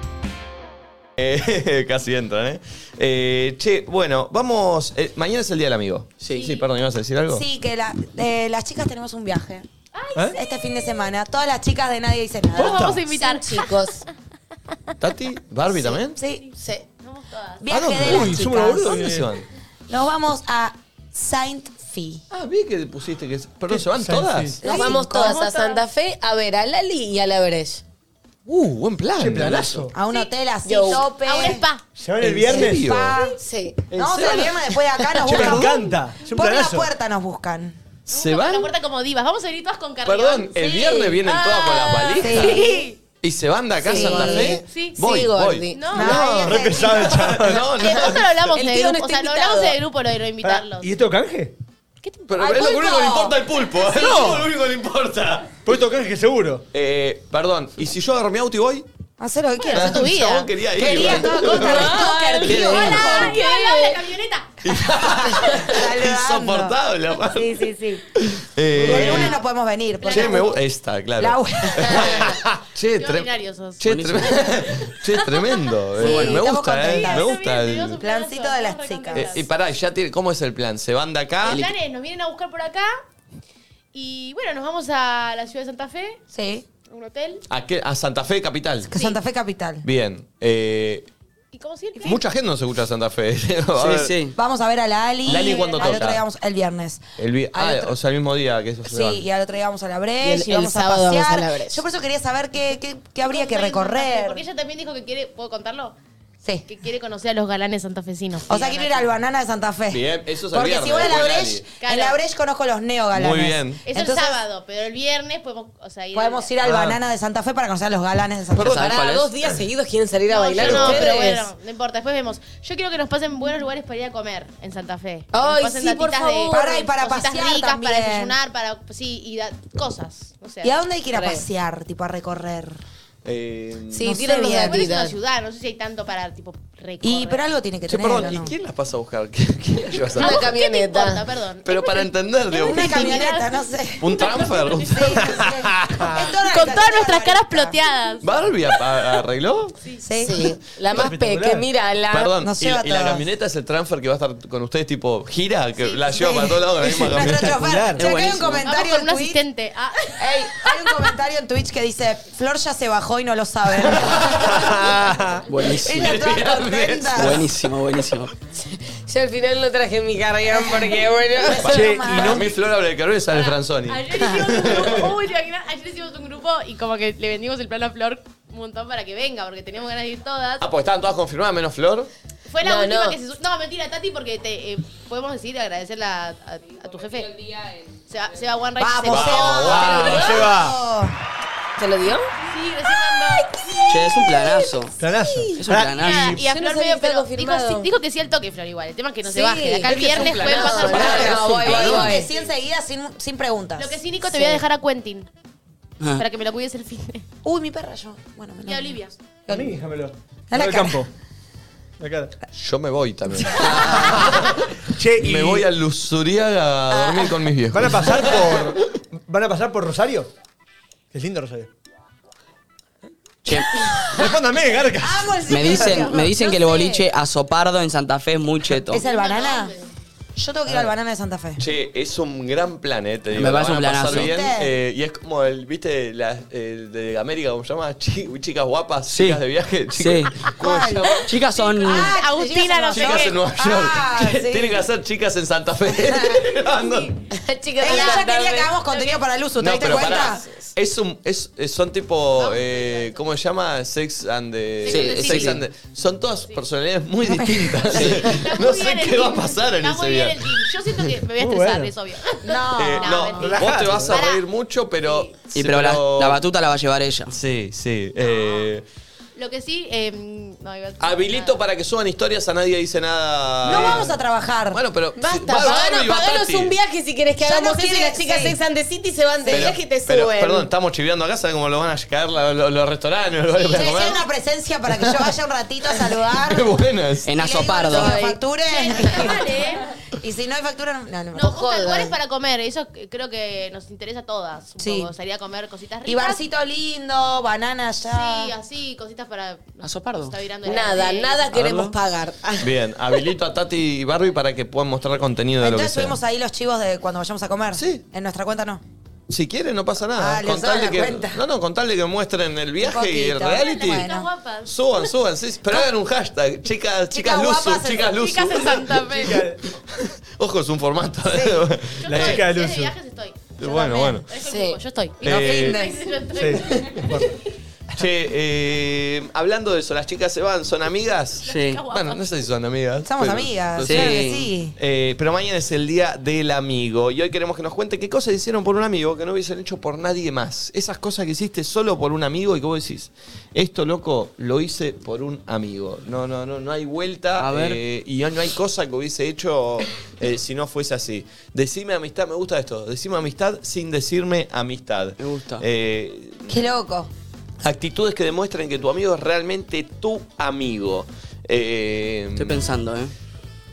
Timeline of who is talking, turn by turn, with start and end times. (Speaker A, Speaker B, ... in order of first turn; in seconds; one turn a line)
Speaker A: 1.2-7.5
Speaker B: 6.3-6.6
Speaker C: 7.3-9.7
Speaker B: 9.9-10.4
Speaker C: 10.3-13.0
Speaker B: 12.6-14.0
Speaker D: 13.1-14.0
Speaker A: 15.0-16.2
Speaker C: 15.7-16.4
Speaker B: 16.4-18.0
Speaker D: 16.6-16.8
Speaker C: 17.6-19.0
Speaker A: 17.7-19.5
Speaker E: 18.1-19.3
Speaker C: 19.9-22.2
Speaker A: 22.3-24.6
Speaker E: 23.7-24.6
Speaker C: 24.6-25.4
Speaker D: 24.6-27.8
Speaker B: 24.7-25.8
Speaker A: 28.5-29.9
Speaker E: 29.2-29.9
Speaker C: 29.9-31.7
Speaker D: 30.6-31.1
Speaker B: 30.9-31.8
Speaker E: 32.0-32.9
Speaker A: 32.2-33.2
Speaker C: 32.5-33.4
Speaker D: 33.2-33.8
Speaker A: 33.9-34.6
Speaker C: 33.9-37.8
Speaker E: 35.2-36.9
Speaker A: 35.3-35.8
Speaker A: 38.1-38.7
Speaker B: 38.1-43.0
Speaker A: 40.0-42.7
Speaker C: 40.6-41.2
Speaker C: 42.2-42.9
Speaker A: 43.2-48.5
Speaker C: 43.9-44.6
Speaker D: 43.9-45.8
Speaker B: 44.7-45.0
Speaker B: 45.7-46.3
Speaker C: 45.9-47.4
Speaker E: 46.4-47.7
Speaker B: 47.8-50.9
Speaker D: 47.8-49.8
Speaker E: 50.4-51.5
Speaker B: 52.0-52.7
Speaker A: 52.3-55.6
Speaker C: 52.3-53.4
Speaker B: 53.8-54.4
Speaker E: 54.0-54.4
Speaker E: 55.7-56.6
Speaker A: 56.7-58.9
Speaker C: 59.2-63.4
Speaker B: 59.6-64.6
Speaker A: 59.7-63.2
Speaker D: 61.8-64.0
Speaker A: 64.6-67.5
Speaker C: 65.0-68.1
Speaker A: 68.2-69.4
Speaker C: 68.8-70.6
Speaker B: 69.0-69.4
Speaker B: 70.0-70.6
Speaker A: 70.1-78.0
Speaker C: 71.2-72.3
Speaker B: 73.0-79.5
Speaker F: 73.8-74.5
Speaker C: 76.0-77.3
Speaker F: 76.1-76.3
Speaker C: 78.0-79.4
Speaker A: 79.1-81.7
Speaker B: 81.4-82.9
Speaker B: 83.9-86.2
Speaker C: 86.3-86.7
Speaker B: 86.9-87.5
Speaker A: 87.5-88.9
Speaker C: 88.9-89.9
Speaker B: 88.9-89.2
Speaker A: 89.8-91.1
Speaker B: 91.5-92.2
Speaker A: 92.0-94.2
Speaker F: 93.8-94.3
Speaker C: 94.3-97.0
Speaker B: 95.3-96.2
Speaker A: 95.3-96.2
Speaker A: 97.2-99.2
Speaker C: 97.5-98.0
Speaker C: 98.9-104.4
Speaker D: 100.2-101.8
Speaker B: 103.3-105.9
Speaker B: 106.7-109.1
Speaker C: 108.5-114.4
Speaker A: 109.9-111.7
Speaker B: 111.8-112.2
Speaker A: 113.1-113.8
Speaker B: 113.9-116.5
Speaker C: 116.1-119.0
Speaker A: 118.5-119.0
Speaker F: 118.6-119.3
Speaker D: 118.8-121.5
Speaker B: 120.3-130.8
Speaker A: 120.6-121.1
Speaker D: 125.3-126.9
Speaker C: 126.5-128.3
Speaker C: 130.6-132.8
Speaker D: 131.1-131.4
Speaker A: 133.2-134.2
Speaker D: 133.9-135.2
Speaker C: 134.0-134.9
Speaker B: 134.6-137.5
Speaker C: 137.0-138.5
Speaker A: 137.9-140.5
Speaker B: 140.1-143.5
Speaker D: 140.2-141.2
Speaker A: 141.7-143.2
Speaker C: 142.6-147.8
Speaker A: 144.0-145.4
Speaker B: 144.1-145.4
Speaker E: 145.4-146.1
Speaker B: 146.1-149.2
Speaker A: 148.2-149.8
Speaker C: 150.0-150.6
Speaker D: 150.2-152.3
Speaker E: 150.9-151.7
Speaker A: 152.1-157.6
Speaker C: 152.4-153.3
Speaker B: 155.8-156.2
Speaker C: 156.1-159.4
Speaker E: 157.1-158.0
Speaker F: 157.9-158.7
Speaker B: 158.6-161.1
Speaker C: 160.2-165.0
Speaker A: 163.8-165.0
Speaker E: 164.6-165.4
Speaker F: 165.5-166.2
Speaker C: 165.6-167.5
Speaker A: 165.8-167.4
Speaker F: 167.2-168.3
Speaker D: 168.7-171.7
Speaker C: 170.5-172.5
Speaker E: 171.7-172.4
Speaker A: 172.1-175.1
Speaker B: 173.3-180.7
Speaker A: 180.6-182.1
Speaker B: 182.5-190.5
Speaker D: 182.6-183.2
Speaker C: 188.8-191.2
Speaker A: 189.1-190.3
Speaker E: 189.7-190.8
Speaker D: 191.8-192.3
Speaker B: 192.4-193.5
Speaker D: 193.6-194.2
Speaker F: 193.9-194.9
Speaker E: 195.0-196.4
Speaker F: 195.6-196.4
Speaker B: 196.0-202.5
Speaker D: 196.3-197.9
Speaker D: 199.2-202.3
Speaker C: 199.9-204.6
Speaker A: 201.5-202.1
Speaker B: 203.8-205.3
Speaker B: 206.2-207.2
Speaker C: 207.4-209.8
Speaker B: 208.7-209.1
Speaker E: 209.5-211.1
Speaker C: 210.5-211.1
Speaker E: 212.0-212.3
Speaker A: 212.5-214.6
Speaker F: 213.6-214.2
Speaker E: 214.1-215.7
Speaker A: 215.2-218.7
Speaker C: 216.9-217.4
Speaker E: 217.7-220.3
Speaker E: 221.1-221.7
Speaker F: 223.4-223.7
Speaker C: 223.9-224.3
Speaker E: 224.0-226.0
Speaker C: 225.0-227.1
Speaker F: 225.5-229.0
Speaker C: 228.9-229.7
Speaker B: 228.9-229.9
Speaker C: 230.4-231.6
Speaker A: 231.6-241.3
Speaker F: 233.3-234.3
Speaker C: 234.1-234.7
Speaker F: 239.1-239.4
Speaker F: 239.9-240.3
Speaker C: 240.6-241.2
Speaker B: 241.2-243.4
Speaker F: 241.3-242.1
Speaker C: 241.8-244.8
Speaker A: 242.9-247.2
Speaker C: 245.9-246.5
Speaker B: 246.8-247.1
Speaker D: 247.3-248.7
Speaker C: 247.8-250.5
Speaker B: 247.9-248.2
Speaker B: 248.9-249.2
Speaker A: 249.6-260.6
Speaker B: 249.8-250.3
Speaker B: 252.4-253.3
Speaker B: 254.8-255.7
Speaker F: 254.9-255.6
Speaker C: 257.3-258.0
Speaker B: 257.8-264.4
Speaker E: 261.4-261.9
Speaker C: 262.4-263.5
Speaker A: 262.8-266.4
Speaker E: 263.4-264.2
Speaker B: 265.1-265.3
Speaker F: 265.5-267.3
Speaker A: 267.3-268.8
Speaker B: 268.2-268.7
Speaker B: 269.4-271.6
Speaker A: 271.0-274.2
Speaker C: 273.6-274.8
Speaker A: 274.7-276.8
Speaker D: 275.2-280.7
Speaker C: 277.4-278.6
Speaker C: 279.4-279.8
Speaker A: 279.5-284.2
Speaker B: 283.5-284.1
Speaker C: 283.6-291.6
Speaker A: 286.3-287.3
Speaker F: 287.3-288.2
Speaker D: 287.9-288.4
Speaker B: 288.7-290.0
Speaker B: 291.3-296.4
Speaker D: 291.4-292.1
Speaker C: 294.8-295.1
Speaker C: 296.1-298.5
Speaker B: 298.1-301.6
Speaker F: 299.8-300.4
Speaker D: 300.6-302.7
Speaker F: 301.6-301.9
Speaker A: 302.6-306.2
Speaker C: 305.6-308.8
Speaker A: 307.8-308.0
Speaker A: 309.3-314.1
Speaker C: 310.2-311.4
Speaker C: 312.8-314.3
Speaker B: 313.4-315.1
Speaker A: 314.6-319.3
Speaker C: 317.1-318.1
Speaker B: 318.0-319.5
Speaker E: 319.1-319.6
Speaker A: 319.9-322.6
Speaker C: 321.3-321.7
Speaker B: 322.0-323.6
Speaker E: 322.1-322.9
Speaker A: 323.6-324.3
Speaker C: 323.6-324.2
Speaker B: 324.3-327.4
Speaker D: 324.4-324.8
Speaker A: 325.2-325.8
Speaker C: 325.2-326.8
Speaker E: 326.4-327.3
Speaker A: 328.0-334.1
Speaker B: 331.4-332.4
Speaker F: 331.5-331.8
Speaker C: 333.0-334.8
Speaker F: 333.8-334.5
Speaker A: 334.8-356.6
Speaker F: 347.4-347.8
Speaker F: 355.2-355.6
Speaker C: 356.5-357.1
Speaker A: 357.6-362.7
Speaker F: 362.4-363.1